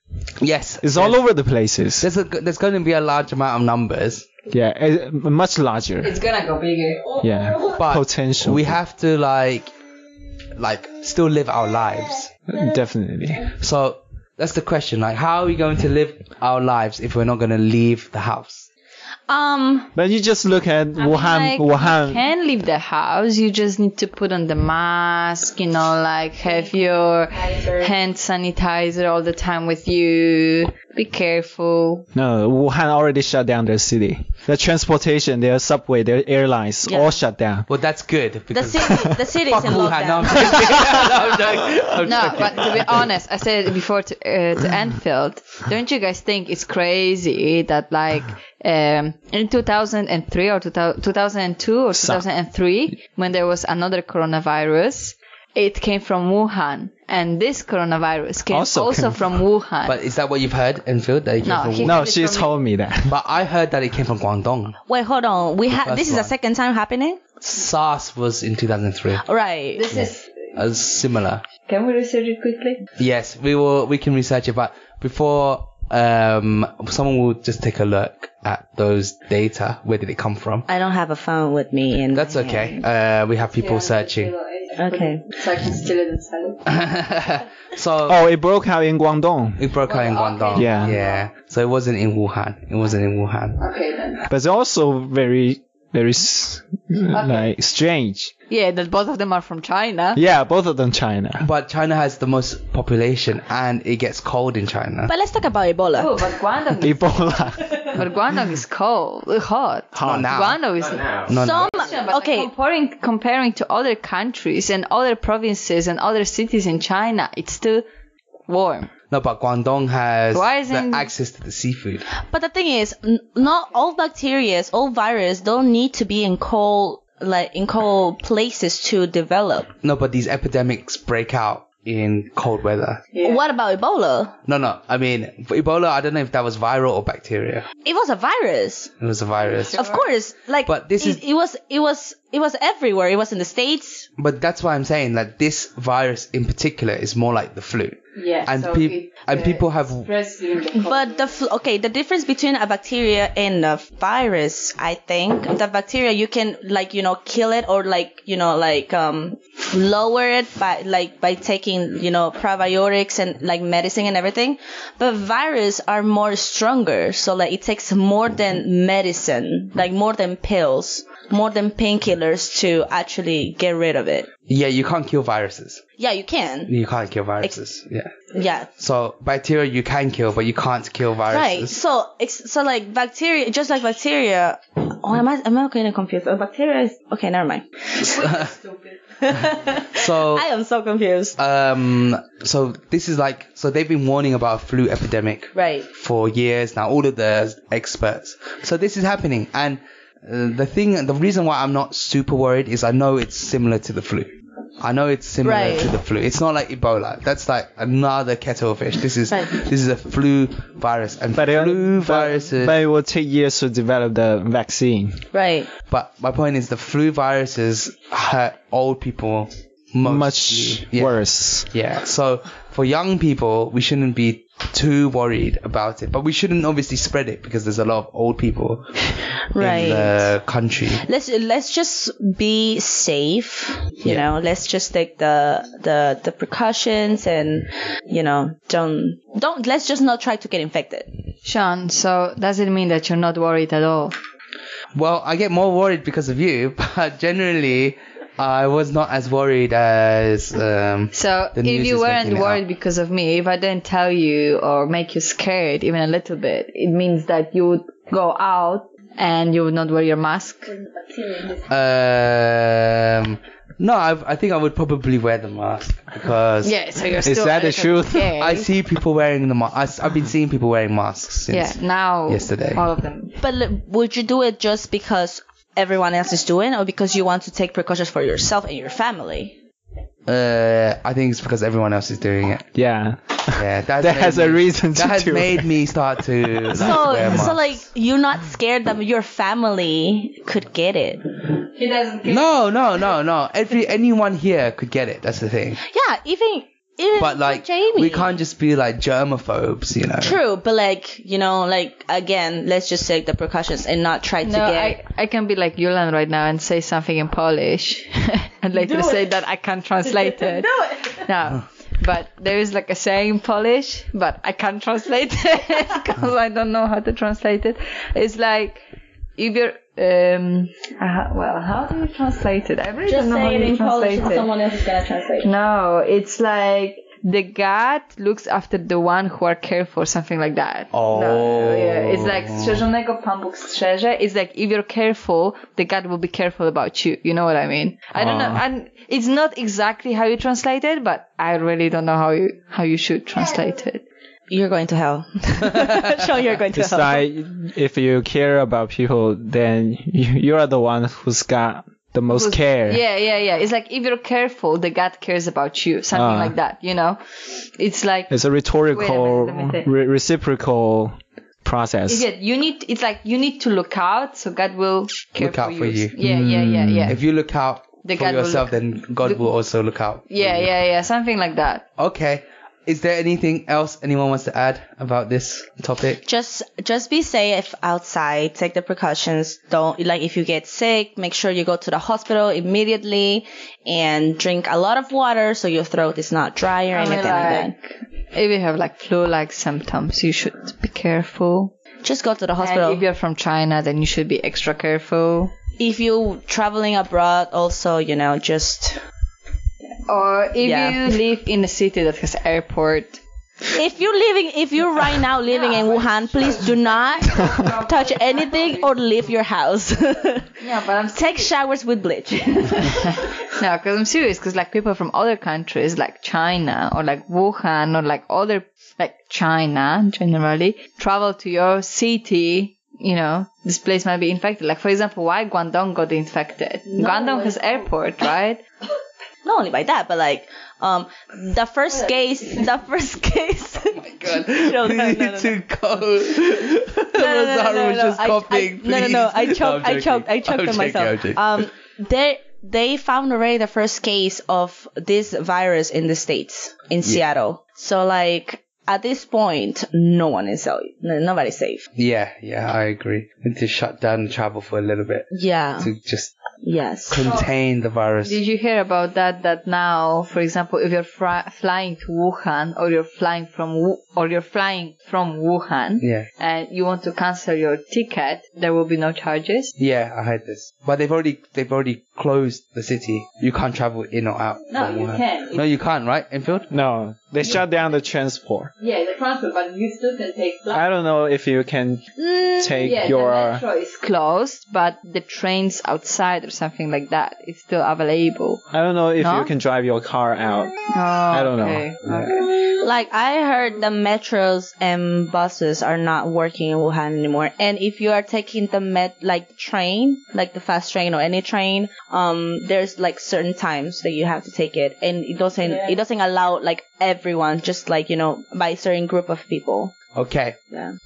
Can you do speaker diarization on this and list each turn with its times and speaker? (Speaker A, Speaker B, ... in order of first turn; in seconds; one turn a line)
Speaker A: 0.4-1.2
Speaker B: 0.8-2.1
Speaker A: 2.0-4.3
Speaker B: 4.5-6.1
Speaker C: 6.0-7.0
Speaker B: 7.2-8.8
Speaker A: 7.7-9.7
Speaker A: 10.6-12.3
Speaker B: 12.5-13.5
Speaker A: 13.6-18.7
Speaker D: 19.3-19.9
Speaker B: 19.9-22.3
Speaker D: 21.0-21.4
Speaker C: 21.1-32.0
Speaker D: 26.4-27.9
Speaker B: 32.1-37.7
Speaker D: 36.8-37.2
Speaker A: 37.7-43.1
Speaker D: 38.5-40.5
Speaker C: 42.0-60.0
Speaker B: 51.9-52.2
Speaker B: 58.5-59.4
Speaker A: 59.8-62.0
Speaker C: 61.4-62.5
Speaker B: 61.8-63.1
Speaker A: 63.1-64.8
Speaker D: 64.9-67.2
Speaker A: 65.7-66.3
Speaker A: 67.4-69.2
Speaker D: 69.2-69.9
Speaker C: 69.8-70.3
Speaker A: 69.9-71.4
Speaker C: 71.7-72.8
Speaker A: 73.0-80.7
Speaker D: 80.7-82.8
Speaker A: 82.1-84.3
Speaker C: 83.5-86.7
Speaker D: 84.7-85.2
Speaker A: 86.7-88.2
Speaker B: 88.0-89.6
Speaker A: 89.6-93.6
Speaker C: 89.8-91.3
Speaker B: 90.5-90.9
Speaker C: 93.6-94.2
Speaker B: 94.3-98.3
Speaker C: 97.1-97.5
Speaker C: 98.5-100.2
Speaker B: 100.1-101.5
Speaker A: 101.4-105.1
Speaker D: 105.1-106.3
Speaker C: 106.0-107.0
Speaker B: 106.8-108.0
Speaker C: 107.9-117.8
Speaker B: 109.9-111.3
Speaker A: 110.0-110.6
Speaker A: 111.3-111.7
Speaker D: 111.3-112.5
Speaker C: 118.5-118.9
Speaker A: 119.1-122.0
Speaker C: 120.3-121.1
Speaker D: 122.1-129.7
Speaker A: 129.8-133.0
Speaker C: 133.1-133.4
Speaker D: 133.2-134.3
Speaker A: 134.4-137.7
Speaker D: 137.8-138.9
Speaker A: 139.0-139.8
Speaker C: 139.4-140.1
Speaker D: 139.7-144.1
Speaker A: 140.7-141.2
Speaker A: 144.2-150.1
Speaker C: 148.1-151.4
Speaker D: 150.7-174.3
Speaker A: 174.5-175.8
Speaker D: 176.0-176.7
Speaker A: 176.7-178.1
Speaker D: 178.3-178.7
Speaker A: 178.8-181.8
Speaker D: 181.3-188.2
Speaker A: 188.0-188.5
Speaker C: 188.2-189.0
Speaker D: 189.2-191.4
Speaker A: 189.9-190.5
Speaker A: 191.4-212.8
Speaker D: 195.5-195.9
Speaker D: 205.4-206.0
Speaker D: 209.3-209.6
Speaker B: 211.3-215.2
Speaker D: 215.3-215.7
Speaker A: 215.9-229.0
Speaker B: 220.0-221.7
Speaker D: 229.5-230.3
Speaker A: 229.6-231.0
Speaker D: 230.9-241.2
Speaker C: 241.4-244.1
Speaker A: 244.9-252.6
Speaker C: 251.1-260.7
Speaker A: 261.7-266.8
Speaker C: 266.6-268.7
Speaker B: 267.2-268.4
Speaker A: 268.4-272.9
Speaker C: 271.5-273.4
Speaker D: 273.4-279.6
Speaker A: 280.2-282.6
Speaker B: 282.7-285.8
Speaker A: 283.6-287.8
Speaker D: 286.7-291.3
Speaker C: 291.6-292.6
Speaker A: 292.2-295.8
Speaker D: 295.9-298.4
Speaker A: 297.2-300.4
Speaker D: 300.2-305.0
Speaker C: 304.4-318.8
Speaker D: 308.7-309.4
Speaker D: 310.0-311.3
Speaker C: 319.4-324.7
Speaker D: 323.0-325.5
Speaker C: 325.4-344.0
Speaker A: 330.9-332.8
Speaker B: 338.1-338.6
Speaker D: 344.5-347.2
Speaker B: 346.7-353.0
Speaker C: 352.3-358.3
Speaker B: 356.1-356.6
Speaker B: 358.3-362.2
Speaker C: 358.9-359.9
Speaker C: 362.1-367.2
Speaker A: 365.4-366.1
Speaker B: 366.2-367.2
Speaker A: 367.1-370.7
Speaker C: 368.0-369.5
Speaker C: 370.3-371.8
Speaker A: 372.0-376.2
Speaker D: 376.2-387.8
Speaker C: 386.9-387.8
Speaker C: 388.3-391.7
Speaker D: 392.0-393.0
Speaker C: 392.6-395.5
Speaker D: 395.8-399.0
Speaker C: 400.1-403.2
Speaker D: 400.6-401.2
Speaker D: 403.7-410.5
Speaker C: 405.5-409.1
Speaker C: 410.6-411.5
Speaker D: 411.1-413.0
Speaker C: 412.7-428.6
Speaker D: 426.9-428.3
Speaker D: 429.4-435.5
Speaker A: 433.9-441.6
Speaker D: 437.1-451.8
Speaker A: 451.9-455.3
Speaker D: 455.3-455.9
Speaker A: 455.8-456.3
Speaker D: 456.6-457.2
Speaker A: 457.1-458.4
Speaker C: 457.2-457.5
Speaker C: 458.2-469.7
Speaker A: 466.0-466.3
Speaker A: 469.8-476.7
Speaker C: 474.7-475.6
Speaker B: 476.7-478.7
Speaker C: 478.8-480.8
Speaker B: 480.7-482.0
Speaker C: 482.2-488.6
Speaker B: 482.6-483.6
Speaker B: 488.7-490.7
Speaker C: 489.2-489.5
Speaker C: 490.9-492.3
Speaker B: 491.3-491.9
Speaker D: 492.3-509.9
Speaker A: 510.1-510.6